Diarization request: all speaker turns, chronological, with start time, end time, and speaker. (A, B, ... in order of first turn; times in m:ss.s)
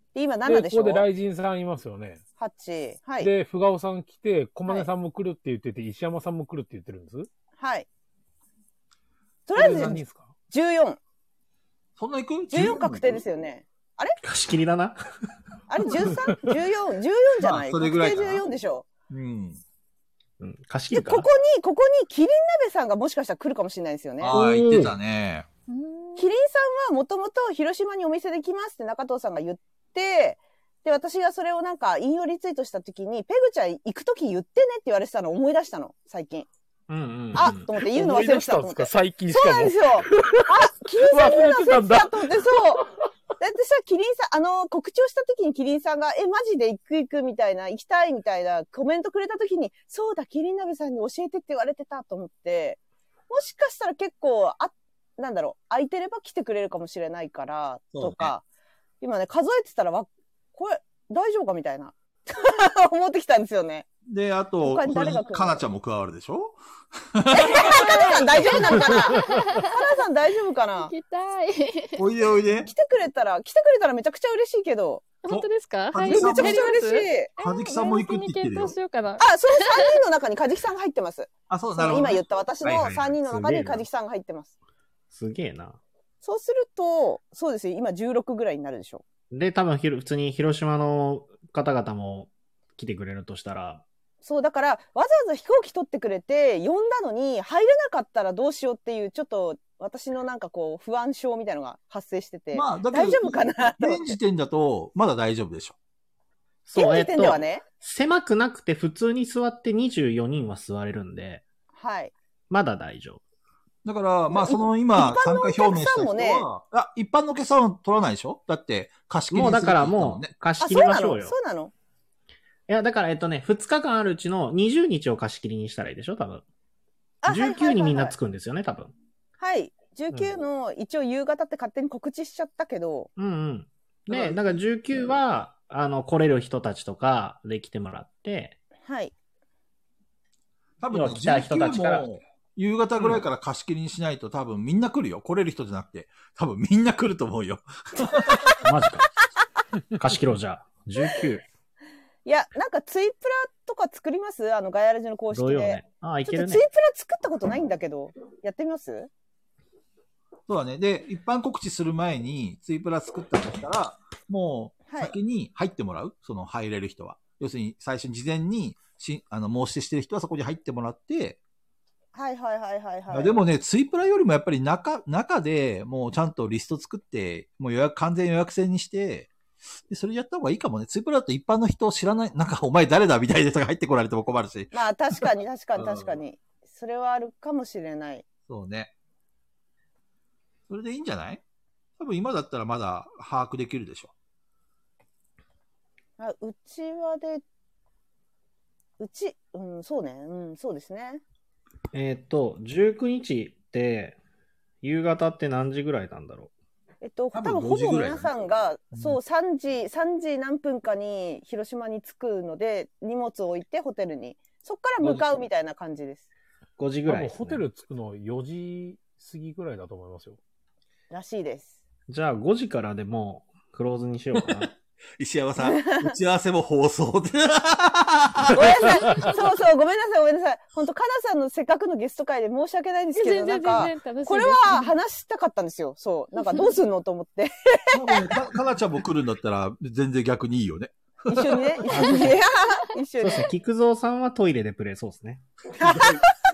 0:00.1-0:01.0 A
0:00.4-0:02.2 B
0:02.4-0:03.3 A
0:03.2-0:07.3 B
0:07.6-0:07.9 A
0:09.5-0:11.0 A
0:09.5-0:10.3 B
0:12.0-0:13.2 C
0:12.5-0:14.2 A
0:14.2-0:15.0 D
0:15.7-0:18.8 A
0:17.4-0:18.4 C
0:19.1-0:19.6 C
0:20.4-0:21.3 D
0:20.9-0:24.4 A
0:24.2-0:25.4 C
0:24.3-0:24.9 D
0:25.7-0:26.3 E
0:26.2-0:36.5 A
0:36.9-0:37.7 D
0:37.3-0:42.8 A
0:37.8-0:42.9 B
0:43.4-0:58.4 A
0:57.9-0:58.3 C
0:59.0-1:03.9 A
1:04.1-1:06.6 C
1:04.6-1:05.6 A
1:07.1-1:07.8 C
1:07.3-1:10.9 A
1:07.7-1:09.8 E
1:10.8-1:12.0 E
1:12.0-1:12.7 C
1:12.6-1:15.1 A
1:15.2-1:19.9 E
1:15.3-1:16.7 C
1:16.0-1:17.3 A
1:17.4-1:18.7 C
1:19.2-1:24.5 A
1:21.5-1:23.2 C
1:23.3-1:23.8 D
1:25.1-1:25.8 D
1:26.2-1:29.0 A
1:29.3-1:33.8 D
1:34.2-1:44.2 A
1:42.5-1:45.8 C
1:46.6-1:51.4 D
1:46.8-1:47.6 A
1:51.7-1:52.1 A
1:52.5-1:53.2 D
1:53.8-2:00.3 C
1:54.3-1:56.5 A
1:59.3-2:01.3 D
2:00.6-2:01.7 A
2:02.7-2:06.4 D
2:07.2-2:08.1 A
2:07.2-2:08.9 D
2:09.4-2:13.1 A
2:13.2-2:18.6 D
2:14.1-2:14.4 A
2:18.8-2:19.1 A
2:20.8-2:28.6 C
2:20.9-2:22.1 D
2:28.6-2:29.1 D
2:29.9-2:31.4 D
2:32.2-2:39.1 A
2:35.3-2:36.6 D
2:40.5-2:51.4 C
2:44.9-2:45.1 A
2:52.1-2:53.4 A
2:53.1-2:59.3 C
2:59.9-3:05.2 C
3:04.7-3:08.2 A
3:05.8-3:06.2 C
3:08.5-3:08.9 C
3:10.7-3:11.4 C
3:12.0-3:14.1 C
3:16.2-3:17.4 A
3:19.0-3:21.2 A
3:21.9-3:24.2 D
3:24.8-3:26.5 D
3:27.0-3:36.2 A
3:27.3-3:28.3 C
3:28.9-3:29.2 C
3:36.8-3:37.6 D
3:37.0-3:40.4 B
3:41.1-3:41.8 A
3:42.1-3:44.7 D
3:45.2-3:48.9 C
3:45.6-3:46.1 A
3:48.5-3:58.4 A
3:53.1-3:54.9 E
3:56.4-3:56.7 E
3:57.9-4:01.7 C
4:01.3-4:03.5 A
4:01.9-4:02.4 D
4:03.2-4:05.4 D
4:05.8-4:06.3 C
4:05.8-4:06.3 A